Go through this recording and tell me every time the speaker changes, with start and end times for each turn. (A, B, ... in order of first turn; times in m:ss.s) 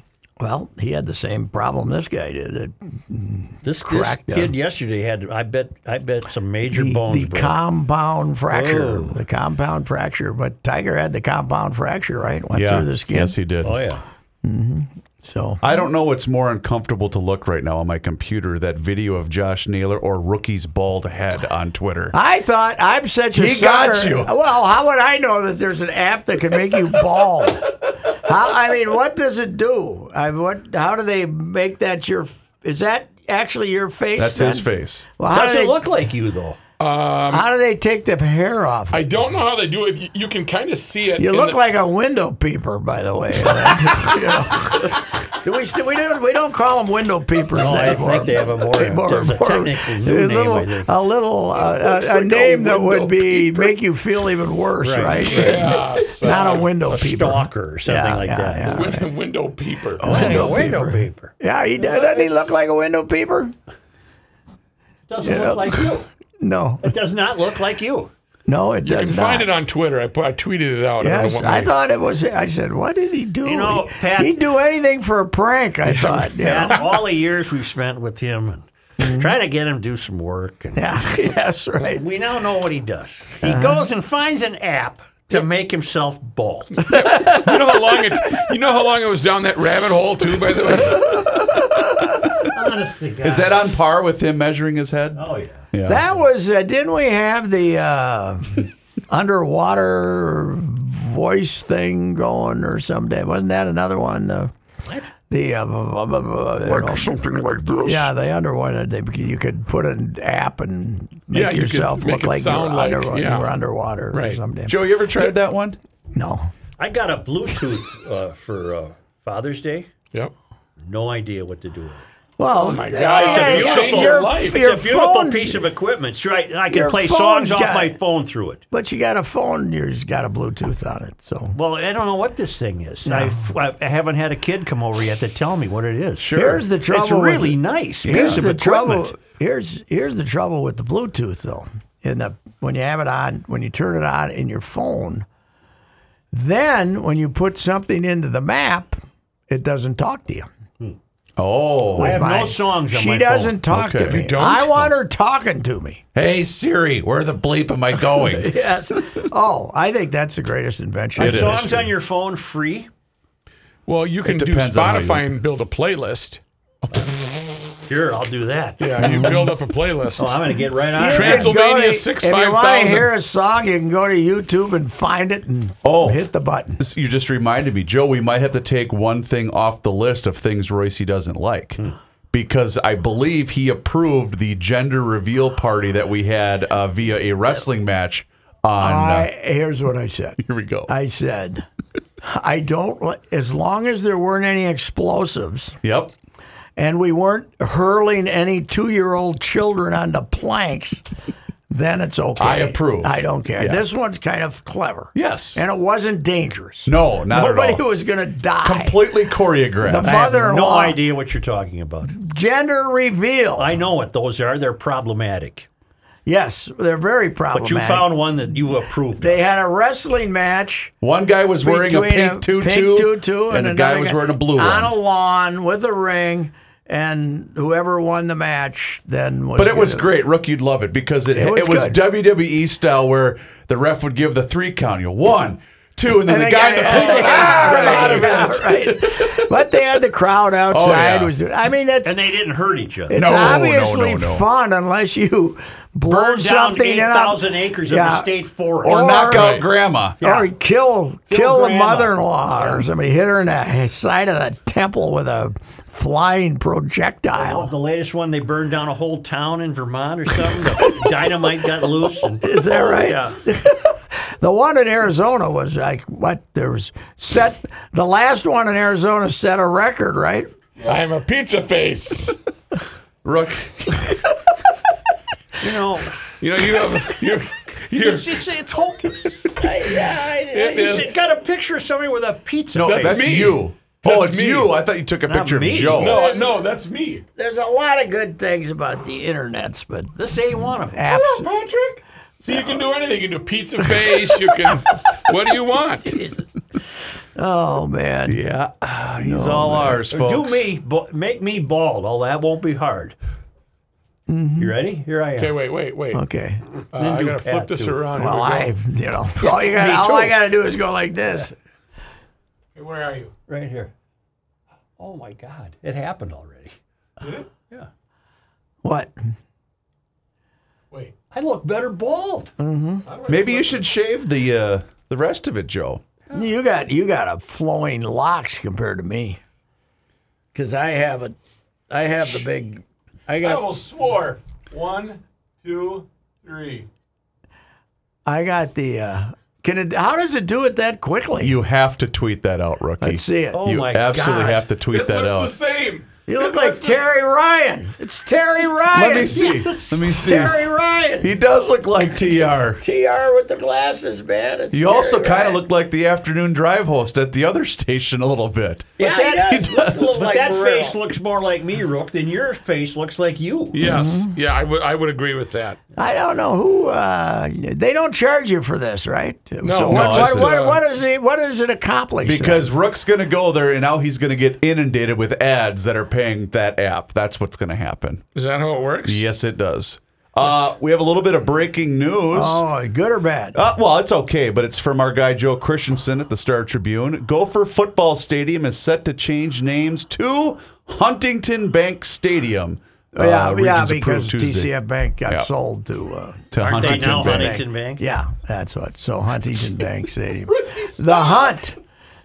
0:00.4-0:04.5 A
0:03.6-0:07.6 B
0:06.7-0:13.4 A
0:08.5-0:09.2 B
0:12.5-0:13.8 C
0:13.6-0:14.0 B
0:14.4-0:15.6 A
0:15.6-0:22.2 C
0:22.1-0:35.7 A
0:23.3-0:24.3 C
0:34.2-0:35.1 C
0:35.3-0:36.6 B
0:36.8-0:37.4 D
0:37.3-0:39.1 A
0:38.9-0:41.6 D
0:41.2-0:59.1 A
0:47.6-0:50.9 B
0:51.6-0:53.7 D
0:54.8-0:58.9 B
0:55.1-0:56.7 D
0:58.6-1:00.5 D
1:00.0-1:01.4 B
1:00.0-1:03.5 A
1:01.8-1:02.5 D
1:05.1-1:06.1 B
1:05.2-1:06.9 A
1:06.8-1:08.1 B
1:08.5-1:09.5 A
1:08.8-1:11.7 D
1:11.0-1:16.8 A
1:13.4-1:14.4 B
1:15.8-1:16.8 D
1:16.4-1:21.1 B
1:19.0-1:19.3 A
1:20.8-1:22.0 A
1:21.9-1:27.0 B
1:23.4-1:23.8 A
1:26.9-1:31.1 D
1:32.5-1:33.7 B
1:33.2-1:36.0 C
1:35.2-1:35.7 B
1:35.9-1:44.5 A
1:44.8-1:45.1 B
1:45.3-1:54.8 A
1:51.3-1:53.6 D
1:54.1-1:54.4 D
1:54.7-1:55.8 C
1:56.1-1:56.5 A
1:56.8-1:59.9 B
2:00.8-2:02.1 B
2:02.4-2:05.6 A
2:02.5-2:04.6 D
2:03.0-2:08.6 B
2:06.7-2:07.9 A
2:08.7-2:11.6 A
2:11.5-2:19.1 B
2:13.0-2:13.4 A
2:16.2-2:16.6 C
2:16.3-2:25.2 A
2:18.0-2:18.6 C
2:26.3-2:30.5 A
2:31.4-2:32.2 C
2:31.9-2:36.0 A
2:32.0-2:33.6 B
2:33.7-2:34.3 C
2:34.1-2:34.9 D
2:36.1-2:38.6 C
2:38.1-2:41.7 A
2:41.2-2:42.9 B
2:41.2-2:41.9 C
2:43.9-2:47.1 D
2:44.2-2:45.3 C
2:47.9-2:49.3 B
2:48.8-2:50.4 D
2:49.0-2:49.4 A
2:50.2-2:51.5 B
2:51.0-2:56.8 A
2:51.0-2:53.1 D
2:55.8-2:56.2 C
2:56.8-3:09.3 C
3:08.8-3:11.6 A
3:10.4-3:10.9 C
3:12.2-3:15.8 A
3:15.8-3:16.1 C
3:16.8-3:21.0 A
3:21.7-3:29.1 A
3:22.4-3:23.8 C
3:25.1-3:25.6 C
3:26.8-3:27.8 C
3:28.6-3:30.2 C
3:29.8-3:31.0 A
3:30.0-3:32.1 B
3:32.1-3:33.7 A
3:33.6-3:35.7 B
3:36.2-3:38.1 A
3:37.5-3:39.4 B
3:39.2-3:40.9 A
3:41.0-3:44.9 C
3:41.6-3:50.1 A
3:49.6-3:59.4 C
3:51.3-3:52.0 A
3:56.2-4:02.2 A
3:56.8-3:58.5 D
4:00.7-4:01.3 C
4:02.0-4:03.3 B
4:03.1-4:08.3 A
4:03.1-4:04.4 C
4:06.0-4:09.4 B
4:08.8-4:09.6 A
4:08.8-4:10.2 C
4:09.3-4:09.6 D
4:10.2-4:10.5 B
4:10.2-4:17.7 A
4:11.3-4:12.8 B
4:17.3-4:23.4 B
4:22.4-4:30.5 A
4:30.8-4:32.4 D
4:33.2-4:34.2 C
4:35.6-4:36.2 B
4:36.4-4:38.2 D
4:37.9-4:39.5 B
4:39.6-4:41.0 A
4:40.5-4:41.1 D
4:40.6-4:43.5 B
4:42.7-4:46.2 C
4:42.8-4:44.7 D
4:45.2-4:46.2 B
4:45.9-4:47.2 D
4:46.0-4:46.6 A
4:47.4-4:50.2 A
4:50.2-4:51.0 B
4:50.9-4:51.5 A
4:51.1-4:56.2 D
4:54.5-4:54.8 A
4:56.1-4:56.4 A
4:57.4-4:58.4 A
4:58.3-5:00.6 C
4:59.2-4:59.9 A
5:00.1-5:03.1 B
5:04.3-5:04.7 A
5:04.6-5:05.6 B
5:05.4-5:06.2 D
5:06.1-5:06.6 A
5:06.9-5:08.7 D
5:06.9-5:08.1 B
5:08.2-5:11.5 A
5:09.7-5:10.3 B
5:12.7-5:13.3 D
5:13.5-5:13.9 B
5:15.0-5:16.7 B
5:17.2-5:17.5 D
5:18.8-5:19.1 A
5:21.3-5:22.5 B
5:22.6-5:23.1 A
5:23.0-5:23.9 D
5:23.3-5:26.0 C
5:26.3-5:29.4 A
5:30.5-5:31.4 A
5:31.9-5:33.6 A
5:33.4-5:36.9 D
5:38.2-5:41.6 A
5:41.4-5:45.6 C
5:43.0-5:43.6 A
5:43.5-5:44.7 B
5:44.9-5:47.0 D
5:46.3-5:51.3 A
5:48.9-5:50.6 C
5:49.3-5:50.2 B
5:51.2-5:52.8 C
5:52.8-5:55.6 A
5:54.7-6:00.1 C
5:59.0-6:01.0 A
5:59.1-5:59.4 B
6:00.1-6:03.8 B
6:03.7-6:05.8 D
6:03.8-6:04.3 A
6:06.0-6:12.7 A
6:09.6-6:10.8 D
6:09.9-6:10.6 C
6:12.2-6:18.2 C
6:18.3-6:19.2 D
6:19.0-6:22.6 C
6:22.3-6:23.6 A
6:23.5-6:34.7 C
6:33.1-6:41.8 A
6:36.5-6:37.6 C
6:36.6-6:38.0 B